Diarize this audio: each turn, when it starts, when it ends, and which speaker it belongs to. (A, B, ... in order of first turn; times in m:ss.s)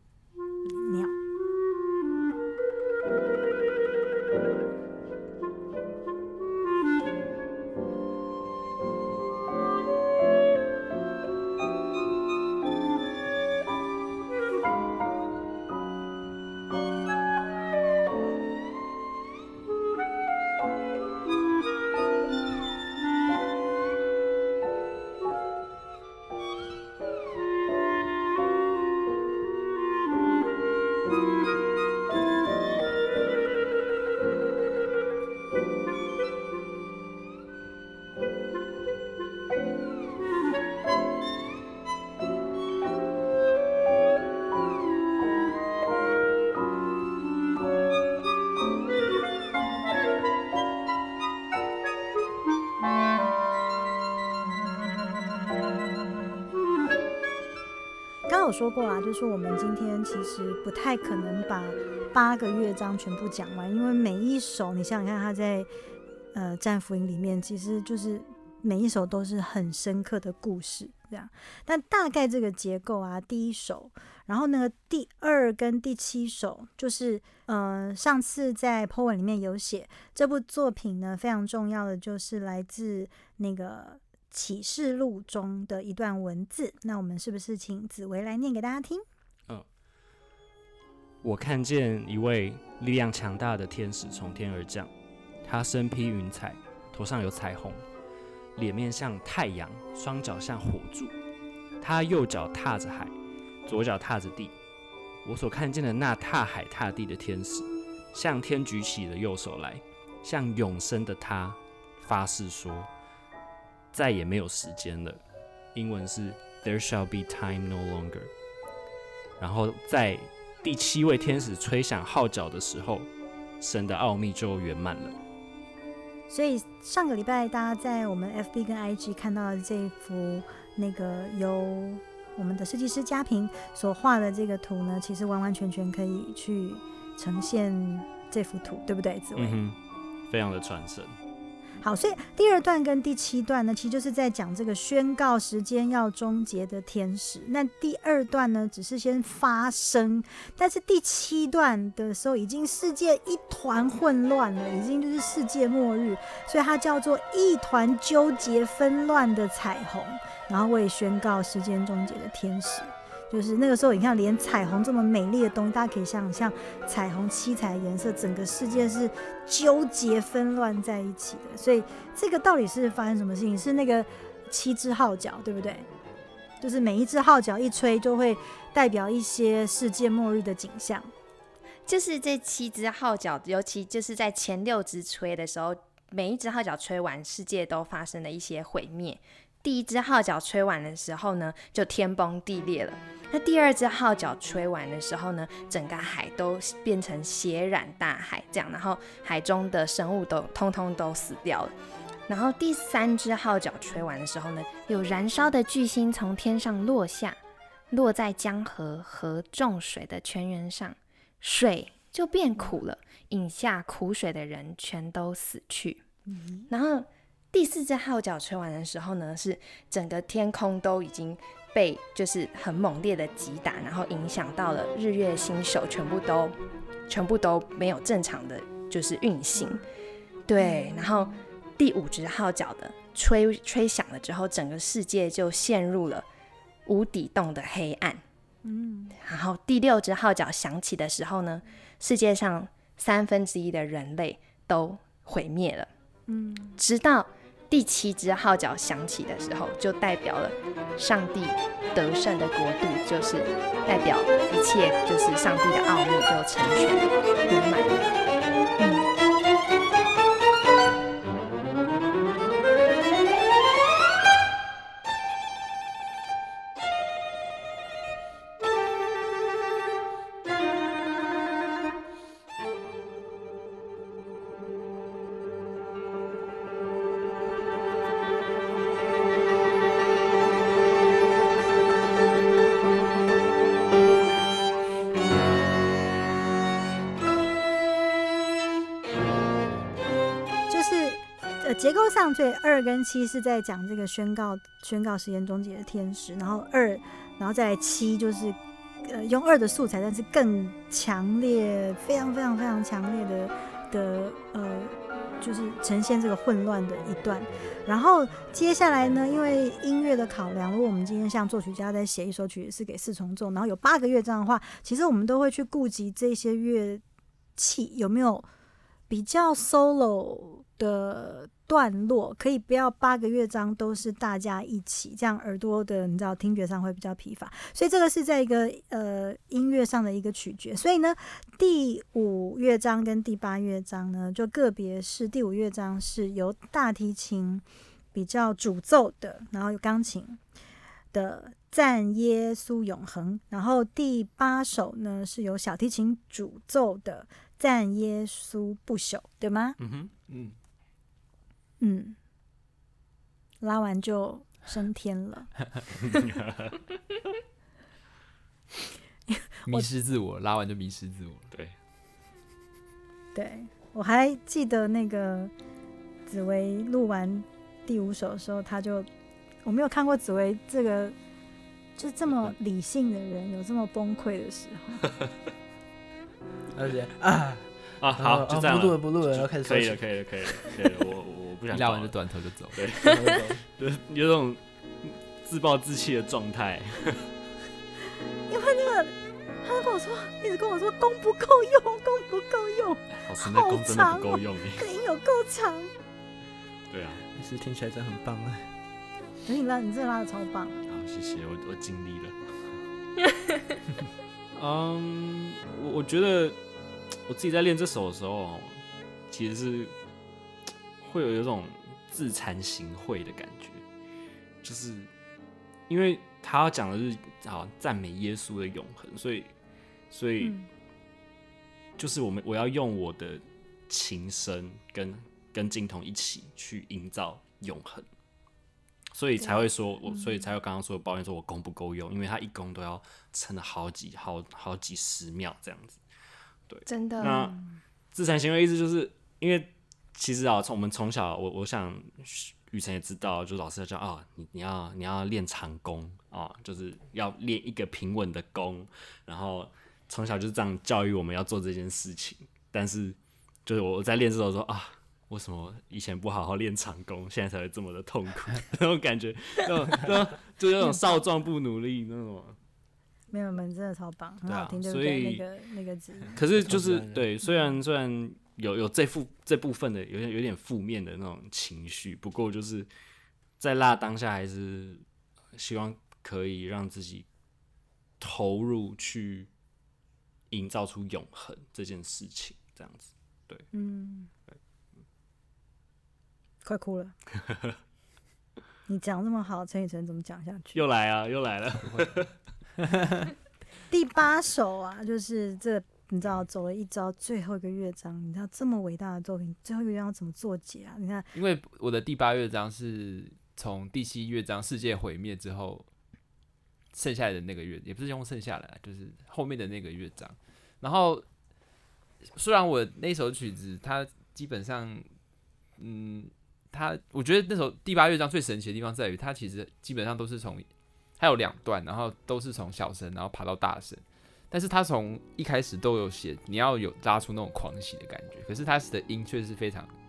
0:00.7-0:01.2 A
0:58.3-1:05.7 A
1:06.3-1:29.0 A
1:31.2-1:34.9 B
1:35.4-1:37.9 B
1:38.6-1:41.2 B
1:41.8-1:43.1 B
1:43.7-1:44.5 B
1:45.2-1:52.9 B
1:53.9-1:55.2 B
1:55.7-1:58.3 B
1:59.4-2:05.2 B
2:06.3-2:19.6 A
2:19.4-2:19.8 B
2:20.3-2:21.2 B
2:21.8-2:55.9 A
2:56.6-3:01.1 A
3:01.9-3:21.7 C
3:22.3-3:27.4 C
3:27.9-3:36.0 C
3:36.3-3:36.7 A
3:36.7-3:46.6 C
3:47.1-3:49.8 C
3:49.6-3:49.8 A
3:50.5-3:56.3 C
3:50.6-3:51.4 A
3:56.9-3:58.2 C
3:58.6-3:59.2 A
3:59.2-4:05.9 C
4:06.3-4:06.8 A
4:06.8-4:18.0 C
4:18.8-4:19.0 A
4:50.7-5:17.0 A
5:17.6-5:18.5 A
5:19.1-5:40.4 A
5:41.1-5:49.8 A
5:49.8-5:50.1 B
5:50.3-5:50.6 D
5:51.8-5:52.2 A
5:53.6-5:55.6 A
5:56.0-5:56.8 B
5:59.3-5:59.9 A
5:59.7-6:01.5 D
6:03.4-6:05.5 A
6:06.3-6:09.1 A
6:09.6-6:11.2 A
6:12.0-6:15.0 A
6:16.7-6:20.6 E
6:18.0-6:22.2 B
6:21.7-6:22.9 D
6:22.7-6:23.2 B
6:23.0-6:23.6 E
6:23.7-6:27.3 B
6:28.5-6:35.9 A
6:33.2-6:34.8 B
6:36.9-6:37.2 B
6:37.4-6:38.7 E
6:39.4-6:40.8 A
6:40.9-6:42.8 B
6:44.6-6:46.6 B
6:47.3-6:50.0 B
6:51.0-6:53.8 B
6:54.6-6:55.1 B
6:55.9-6:59.5 B
7:00.1-7:00.6 B
7:02.0-7:08.1 B
7:09.1-7:16.0 B
7:16.7-7:17.6 B
7:16.9-7:17.5 C
7:17.2-7:17.6 A
7:18.1-7:42.6 B
7:43.3-7:46.4 A
7:44.5-7:45.4 B
7:46.3-7:52.9 B
7:46.5-7:47.3 E
7:53.6-7:57.3 B
7:58.2-7:59.5 B
8:00.5-8:03.7 B
8:03.7-8:04.3 A
8:06.6-8:07.1 A
8:08.9-8:10.8 A
8:10.7-8:12.4 B
8:11.8-8:12.2 D
8:12.8-8:13.3 D
8:13.9-8:21.3 A
8:21.3-8:25.9 D
8:26.9-8:31.3 D
8:32.2-8:35.1 D
8:35.8-8:49.9 D